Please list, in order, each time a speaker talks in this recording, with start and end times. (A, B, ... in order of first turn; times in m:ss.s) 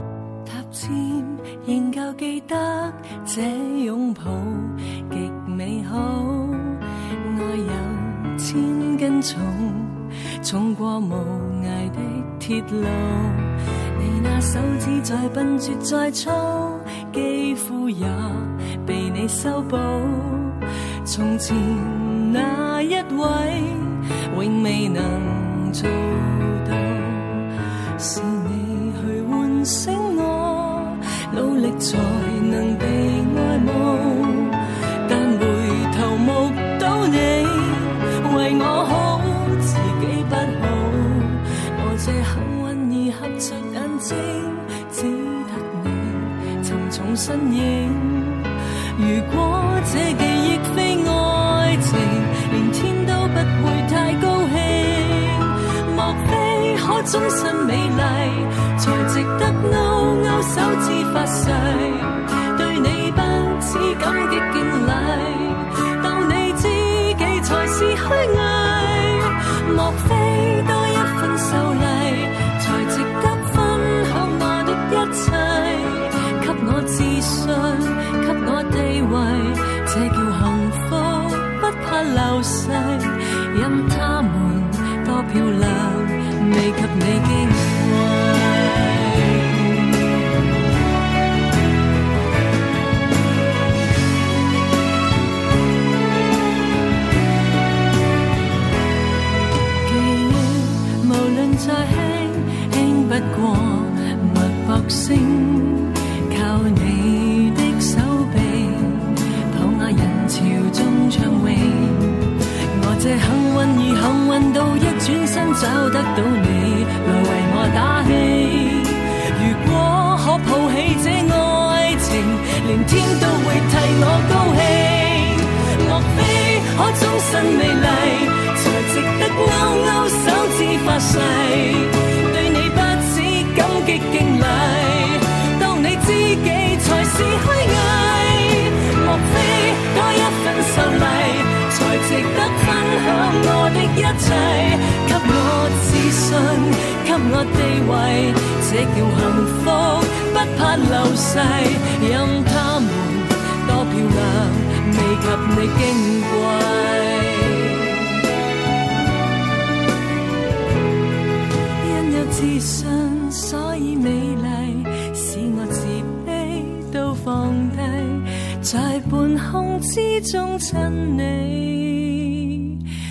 0:00.4-0:27.4 A
0:28.0-1:29.8 A
1:39.8-2:38.0 A
2:41.8-2:52.7 A